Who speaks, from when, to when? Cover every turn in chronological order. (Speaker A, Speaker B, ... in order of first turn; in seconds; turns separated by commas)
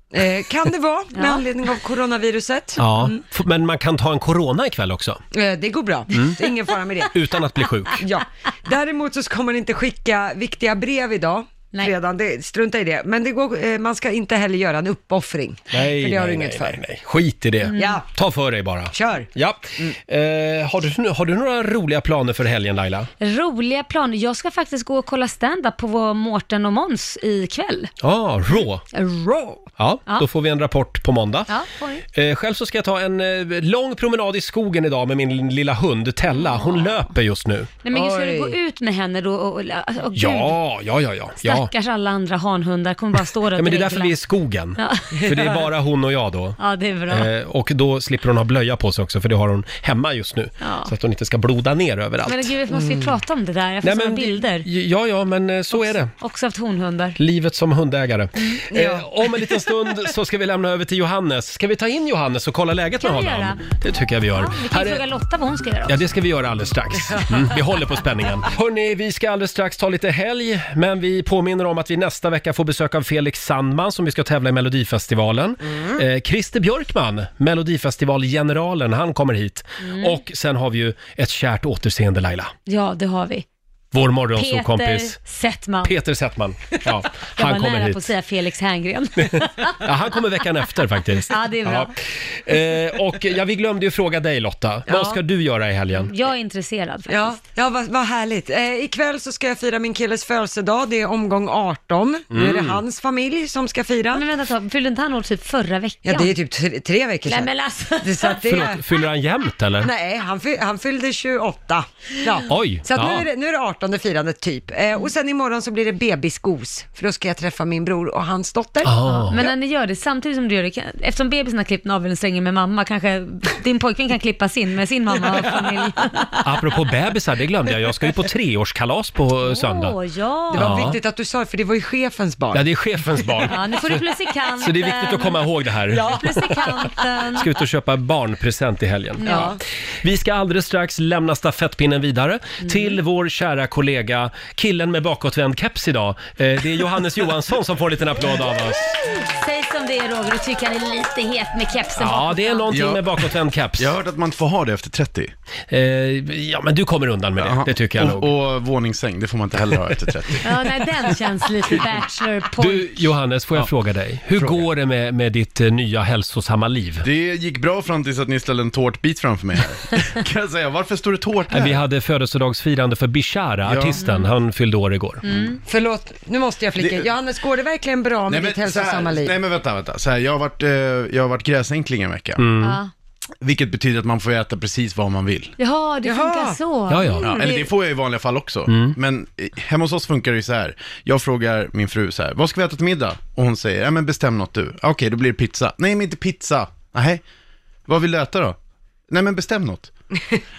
Speaker A: 0.1-3.2, Speaker B: 1.1-1.4, Speaker C: 2.8-5.2, Speaker A: 5.3-7.1, Speaker C: 6.1-6.4, Speaker C: 7.1-8.0, Speaker A: 8.0-16.8, Speaker C: 15.7-23.1, Speaker B: 17.7-18.0, Speaker A: 17.8-18.0, Speaker A: 18.9-19.9, Speaker B: 23.2-27.9, Speaker C: 28.0-28.8, Speaker B: 28.9-30.3, Speaker C: 29.8-31.5, Speaker B: 31.5-32.0, Speaker C: 32.1-37.7, Speaker B: 36.3-37.1, Speaker B: 37.8-40.5, Speaker A: 37.9-38.6, Speaker C: 40.1-41.7, Speaker B: 41.4-44.2, Speaker C: 43.5-46.6, Speaker B: 44.8-45.6, Speaker A: 45.2-45.5, Speaker B: 46.6-47.3, Speaker C: 47.1-52.5, Speaker B: 50.6-50.9, Speaker B: 52.2-54.7, Speaker A: 52.7-53.2, Speaker C: 53.8-56.1, Speaker B: 55.7-57.2, Speaker C: 57.2-65.0, Speaker A: 58.7-59.1, Speaker B: 63.0-63.6, Speaker B: 64.3-66.0, Speaker C: 65.9-82.5, Speaker B: 79.8-80.2, Speaker B: 82.7-83.5, Speaker C: 83.9-85.2, Speaker B: 84.3-85.9, Speaker C: 85.8-88.1, Speaker B: 87.4-89.8, Speaker C: 89.8-96.1, Speaker B: 91.3-91.9, Speaker B: 94.9-95.2, Speaker B: 96.0-97.4, Speaker A: 97.1-104.2, Speaker C: 102.3-102.8, Speaker B: 104.1-106.3, Speaker A: 106.0-107.5, Speaker B: 107.2-108.8, Speaker A: 108.0-108.8, Speaker C: 108.4-109.9, Speaker A: 109.8-119.5, Speaker C: 112.5-113.3, Speaker C: 118.8-119.4, Speaker B: 119.1-126.6, Speaker C: 126.4-129.9, Speaker B: 129.4-130.9, Speaker A: 130.5-132.6, Speaker C: 130.5-130.9, Speaker C: 132.5-133.9, Speaker B: 133.4-135.4, Speaker C: 134.6-136.2, Speaker B: 135.9-137.5, Speaker C: 137.3-139.5, Speaker B: 139.2-139.6, Speaker A: 139.2-139.6, Speaker C: 140.0-149.0, Speaker B: 142.6-143.0, Speaker B: 149.2-152.7, Speaker C: 151.9-153.9, Speaker D: 152.7-153.1, Speaker D: 153.8-155.3, Speaker C: 155.7-158.3, Speaker D: 157.4-160.4, Speaker C: 159.7-160.4, Speaker B: 160.4-163.0, Speaker C: 162.6-167.1, Speaker D: 164.3-164.6, Speaker D: 167.0-171.8, Speaker C: 171.5-175.2, Speaker D: 173.6-174.0, Speaker B: 174.0-174.3, Speaker B: 175.2-175.6, Speaker A: 175.7-179.3, Speaker D: 176.8-177.1, Speaker D: 178.3-182.4, Speaker C: 182.4-182.8, Speaker B: 182.6-182.9, Speaker D: 183.4-185.5, Speaker B: 185.6-187.5, Speaker A: 186.0-186.6, Speaker C: 186.9-187.3, Speaker D: 187.2-197.2, Speaker A: 187.2-187.7, Speaker C: 188.7-189.0, Speaker D: 197.9-198.6, Speaker D: 199.1-199.9